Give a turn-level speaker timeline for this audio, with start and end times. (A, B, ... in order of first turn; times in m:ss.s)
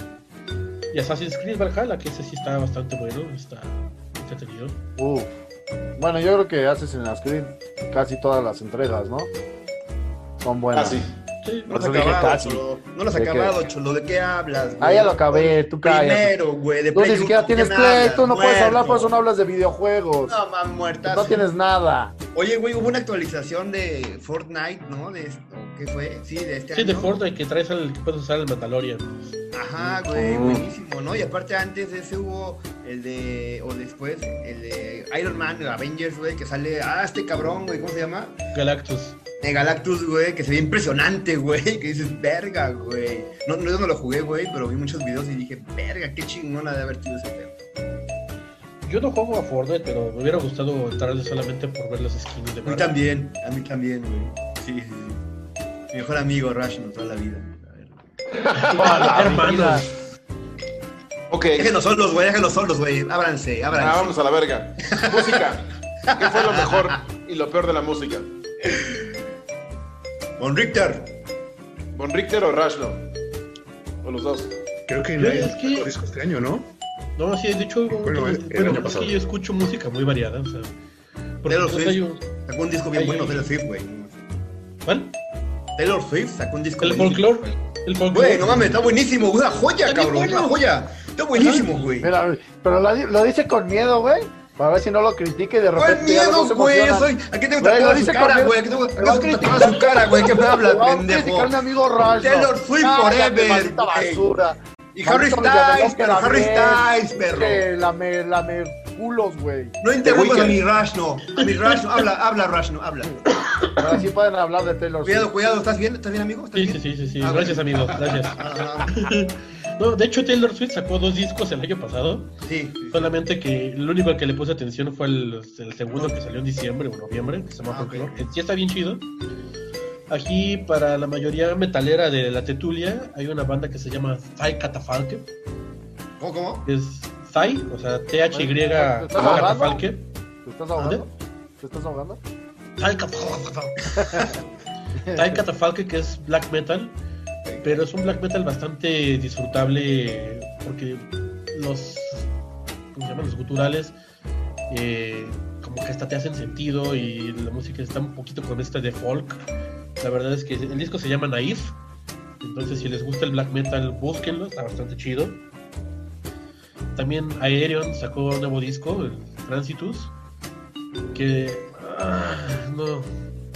0:00.9-0:04.8 A
0:05.0-0:05.4 B
0:06.0-0:09.3 B
0:10.4-0:11.0 B
0:10.8-0:11.1 C
0:11.4-0:11.7 A
0:11.7-0:19.1 D
0:11.7-0:13.6 B
0:14.8-0:16.4 B
0:16.9-0:20.4 B
0:20.3-0:21.5 D
0:21.0-0:22.1 B
0:22.3-0:27.2 D
0:26.7-0:29.2 A
0:29.5-0:38.4 D
0:29.8-0:30.6 B
0:30.2-0:30.6 C
0:38.5-0:39.2 A
0:39.4-0:47.5 D
0:48.8-0:52.9 A
0:52.6-0:55.2 D
0:55.9-0:57.9 D
0:58.4-0:59.4 C
0:58.5-0:59.9 A
0:58.7-0:59.9 B
1:01.3-1:01.8 C
1:01.6-1:04.2 D
1:03.7-1:08.3 C
1:04.9-1:05.5 D
1:06.1-1:07.0 D
1:08.6-1:09.1 D
1:10.4-1:11.1 D
1:12.0-1:13.1 C
1:14.0-1:14.5 C
1:14.9-1:16.7 E
1:15.2-1:15.9 A
1:17.2-1:20.7 A
1:18.0-1:19.2 E
1:21.4-1:22.3 A
1:21.5-1:24.3 D
1:22.9-1:23.6 A
1:24.8-1:25.2 A
1:25.8-1:27.5 D
1:26.8-1:29.0 A
1:28.1-1:32.1 D
1:29.8-1:30.6 A
1:31.4-1:31.9 A
1:32.0-1:49.8 B
1:35.8-1:41.6 D
1:42.1-1:44.3 D
1:45.0-1:47.6 D
1:49.8-1:53.2 D
1:50.0-1:50.6 C
1:53.8-1:55.3 B
1:55.0-1:59.0 D
1:56.6-2:02.3 A
2:02.4-2:03.1 D
2:02.9-2:09.1 A
2:07.7-2:08.3 D
2:10.1-2:15.3 A
2:16.2-2:16.7 D
2:16.7-2:20.1 A
2:18.3-2:19.9 B
2:19.2-2:19.5 C
2:20.4-2:22.2 B
2:20.8-2:21.1 A
2:22.8-2:24.3 A
2:24.0-2:24.4 B
2:25.0-2:25.4 B
2:25.1-2:27.0 A
2:27.5-2:27.8 D
2:27.6-2:32.3 A
2:32.9-2:34.0 A
2:34.7-2:39.4 A
2:40.0-2:41.8 A
2:42.4-2:45.4 A
2:47.0-2:50.1 A
2:51.1-2:53.1 A